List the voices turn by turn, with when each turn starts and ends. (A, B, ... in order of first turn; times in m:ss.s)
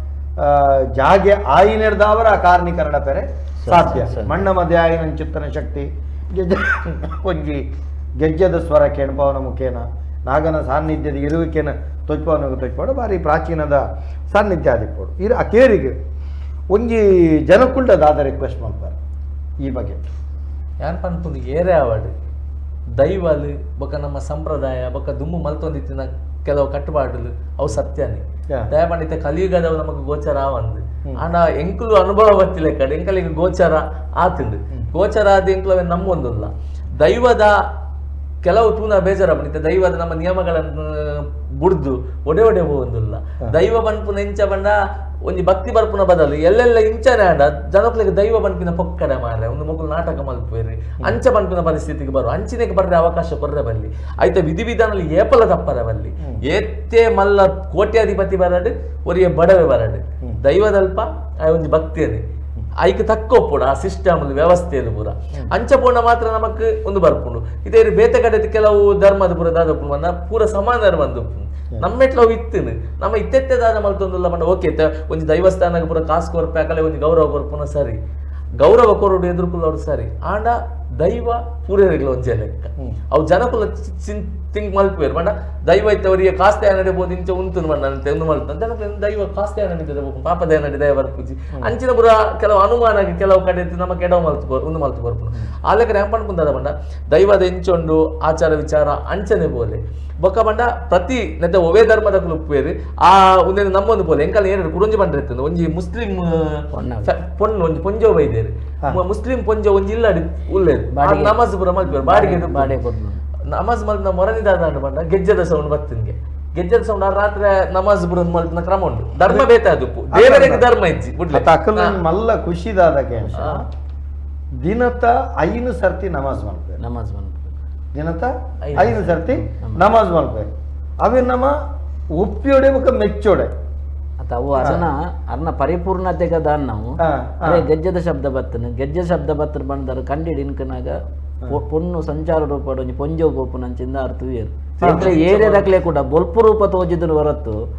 0:00.4-0:07.6 A
0:03.6-0:04.4 B
0:08.2-0:16.0 A
0:16.7-0:19.0 A
0:19.6-0:20.1 A
0:20.8-0:22.1 C
0:23.0-0:37.5 C
0:38.4-1:02.2 C
1:02.8-1:18.0 C
1:18.6-1:52.8 C
1:46.7-1:47.1 B
1:50.9-1:53.2 B
1:53.5-2:02.0 C
2:00.1-2:00.7 A
2:01.3-2:03.6 A
2:03.4-2:03.6 C
2:04.6-2:06.8 A
2:06.8-2:07.5 B
2:07.9-2:11.5 A
2:08.6-2:09.4 C
2:12.2-2:13.5 A
2:14.2-2:21.0 B
2:14.6-2:14.8 A
2:17.0-2:17.6 A
2:21.5-2:27.5 B
2:24.8-2:25.7 C
2:24.8-2:25.1 A